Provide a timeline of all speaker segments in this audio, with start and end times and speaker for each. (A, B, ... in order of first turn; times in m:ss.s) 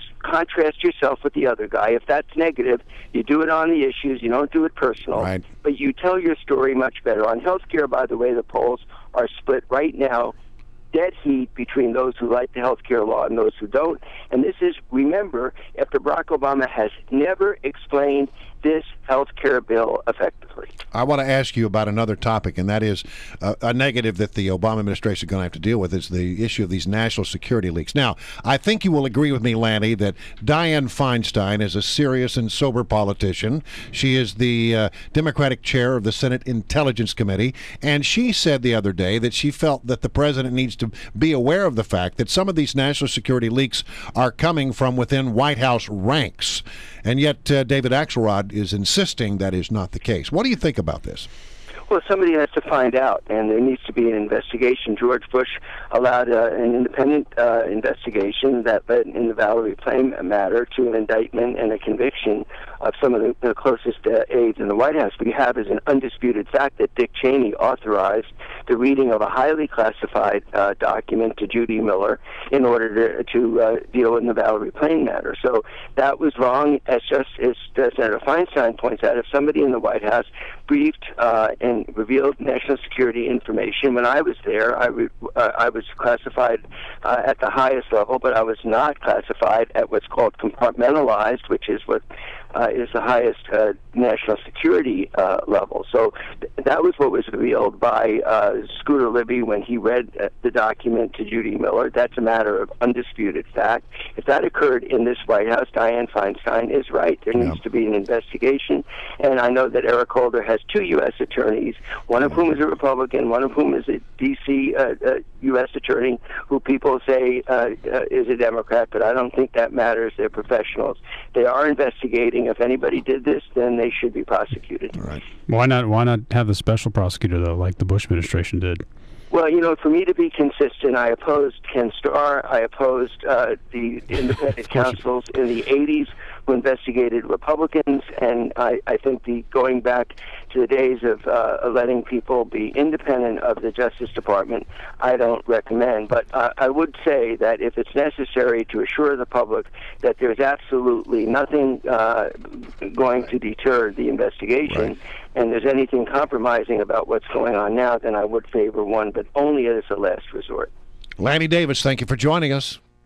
0:00.2-0:10.3 A
0:05.2-0:05.4 B
0:10.9-0:20.7 A
0:20.9-0:51.3 B
0:51.9-2:05.0 A
2:05.5-2:08.8 C
2:09.3-2:40.7 A
2:41.2-2:42.8 B